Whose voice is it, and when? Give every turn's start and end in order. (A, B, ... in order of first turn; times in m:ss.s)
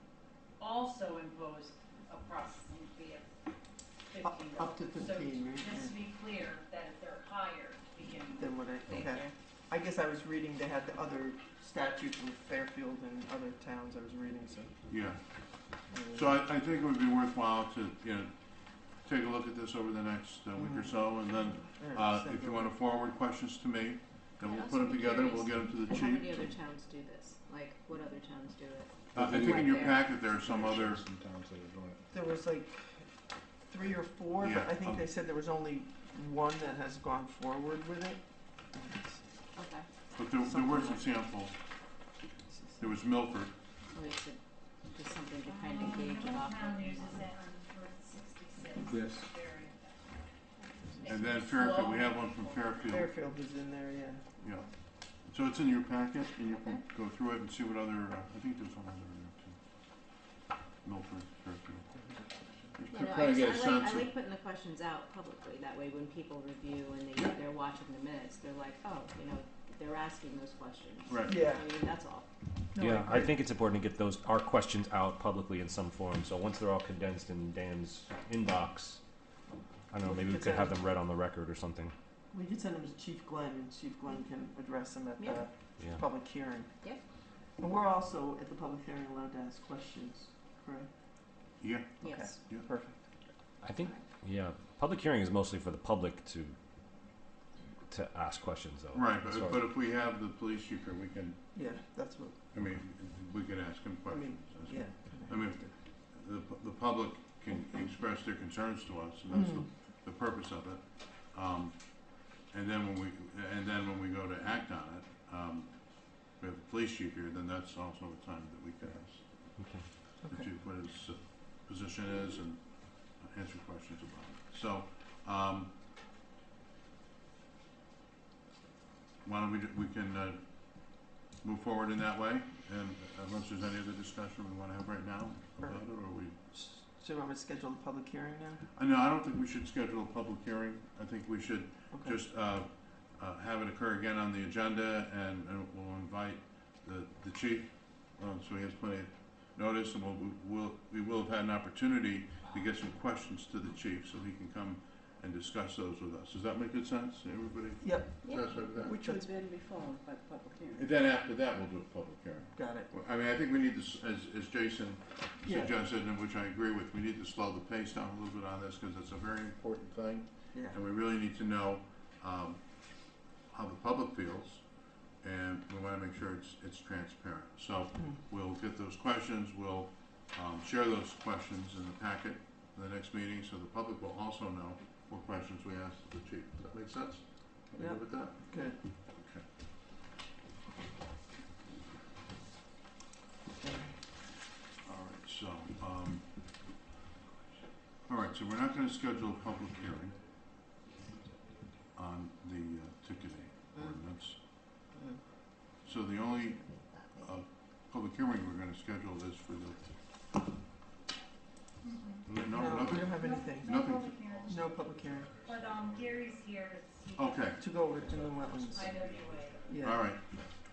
0:00.6-0:03.3 A
0:04.1-0:08.6 A
0:04.2-0:06.0 B
0:08.4-0:14.7 B
0:08.9-0:09.3 C
0:14.9-0:15.2 D
0:15.7-0:26.5 D
0:15.9-0:16.4 B
0:20.6-0:22.7 B
0:24.5-0:30.0 C
0:29.1-0:32.0 E
0:29.1-0:31.0 D
0:32.1-0:33.1 B
0:33.7-0:38.2 B
0:34.4-0:35.1 D
0:38.8-0:39.2 B
0:39.6-0:39.9 C
0:40.1-0:41.5 D
0:40.4-0:41.0 B
0:42.5-0:42.9 B
0:42.8-0:43.5 D
0:43.9-0:47.2 C
0:45.4-0:50.2 A
0:48.9-0:49.3 E
0:51.0-0:53.1 D
0:51.1-0:52.8 A
0:52.9-0:54.2 B
0:54.4-0:59.6 D
0:56.5-0:56.8 C
1:00.8-1:01.9 D
1:02.8-1:04.2 D
1:02.9-1:12.3 C
1:11.1-1:11.5 D
1:11.3-1:11.6 B
1:12.8-1:13.4 B
1:12.8-1:19.0 F
1:19.9-1:21.9 F
1:20.0-1:20.8 B
1:22.3-1:26.7 B
1:27.6-1:30.9 B
1:31.6-1:32.7 D
1:32.0-1:32.4 C
1:32.0-1:33.0 B
1:33.6-1:36.6 F
1:37.9-1:39.6 F
1:38.9-1:41.4 D
1:41.5-1:42.4 B
1:42.5-1:59.6 D
1:44.1-1:45.7 B
1:49.3-1:49.6 B
1:59.6-1:59.8 F
2:00.2-2:00.5 B
2:00.3-2:05.8 D
2:09.2-2:16.4 D
2:16.5-2:18.6 B
2:18.8-2:39.0 D
2:21.9-2:22.2 B
2:37.8-2:39.3 B
2:39.3-2:40.8 C
2:40.7-3:08.5 D
2:42.6-2:42.9 B
2:45.4-2:45.7 B
2:50.5-2:50.8 B
3:07.8-3:08.8 B
3:09.1-3:09.4 D
3:13.6-3:14.0 B
3:14.8-3:16.4 D
3:18.1-3:20.2 D
3:19.6-3:21.6 E
3:21.9-3:24.4 D
3:24.9-3:25.2 B
3:25.8-3:26.6 D
3:27.2-3:29.9 D
3:31.8-3:32.3 A
3:32.3-3:34.1 D
3:32.5-3:33.7 B
3:33.1-3:34.7 A
3:34.0-3:36.6 E
3:34.5-3:35.3 B
3:35.4-3:37.4 A
3:37.2-3:37.7 D
3:37.6-3:39.1 B
3:37.8-3:39.8 E
3:38.7-3:39.6 A
3:39.7-3:40.1 B
3:39.8-3:40.3 D